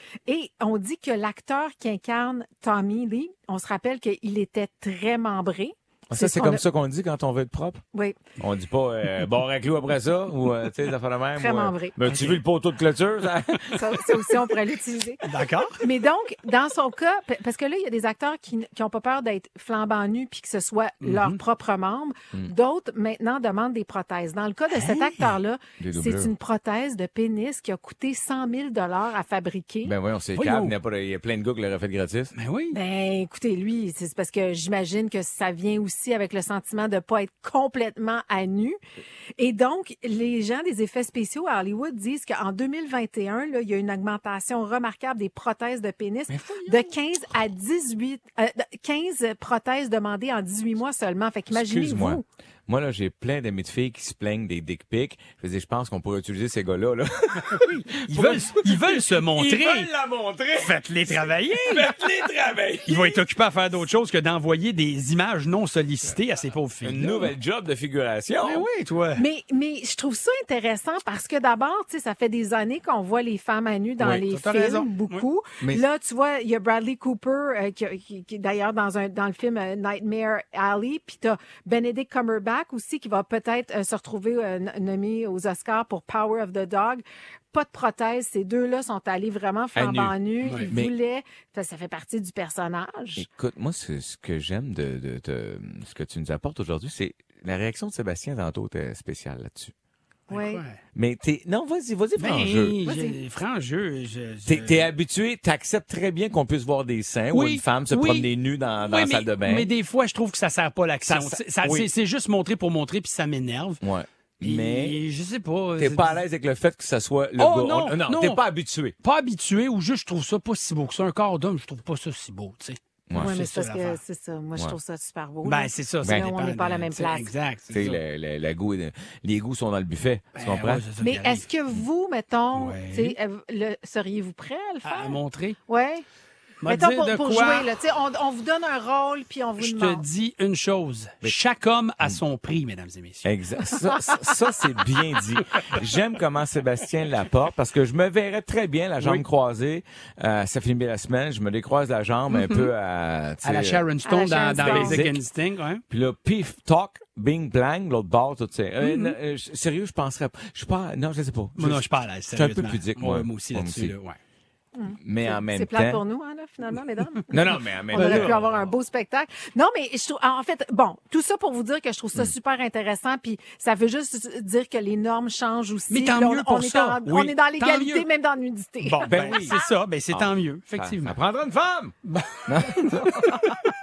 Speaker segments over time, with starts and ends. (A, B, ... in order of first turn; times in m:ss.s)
0:00.3-0:06.6 A
0:06.1-0:07.8 B
0:08.4-0:14.3 B
0:11.4-0:12.0 A
0:12.0-0:12.4 C
0:13.7-0:15.2 A
0:15.2-0:15.8 C
0:15.8-0:29.9 A
0:21.0-0:21.4 C
0:24.7-0:25.4 C
0:25.8-0:26.3 B
0:29.8-0:32.3 B
0:30.4-0:30.7 C
0:32.4-0:32.8 C
0:32.7-0:38.8 A
0:39.4-0:52.2 A
0:46.3-0:46.9 C
0:51.5-1:03.2 B
0:57.5-0:59.9 C
1:00.6-1:01.9 C
1:02.9-1:07.3 C
1:06.8-1:08.6 B
1:08.4-1:09.2 C
1:09.2-1:33.2 A
1:14.0-1:15.2 C
1:29.8-1:30.2 B
1:30.4-1:30.7 C
1:30.7-1:30.9 B
1:33.2-1:39.7 B
1:40.3-1:40.8 C
1:40.3-1:40.6 A
1:40.9-1:42.8 B
1:42.2-1:44.9 C
1:42.8-1:43.2 A
1:44.4-1:49.7 B
1:47.3-1:53.8 C
1:51.1-1:51.9 B
1:53.8-1:55.0 B
1:54.4-1:56.2 C
1:55.8-1:58.9 B
1:57.4-1:58.4 C
1:59.0-2:04.0 C
2:03.1-2:07.3 A
2:05.4-2:08.0 C
2:07.7-2:10.8 B
2:10.3-2:11.4 C
2:11.0-2:16.0 A
2:12.5-2:13.2 C
2:14.8-2:15.6 C
2:16.6-2:17.7 C
2:16.6-2:20.0 A
2:19.6-2:23.3 C
2:23.2-2:33.8 B
2:32.3-2:32.7 C
2:33.4-2:35.8 C
2:34.0-2:35.0 A
2:34.5-2:35.2 B
2:35.9-2:43.9 B
2:38.8-2:39.1 C
2:41.6-2:44.2 C
2:44.7-2:59.6 A
2:45.0-2:46.0 B
2:47.3-2:48.5 B
2:47.9-2:48.4 C
2:55.9-2:58.0 C
2:58.8-3:01.2 C
2:59.0-2:59.5 B
3:00.1-3:03.4 B
3:02.1-3:03.4 C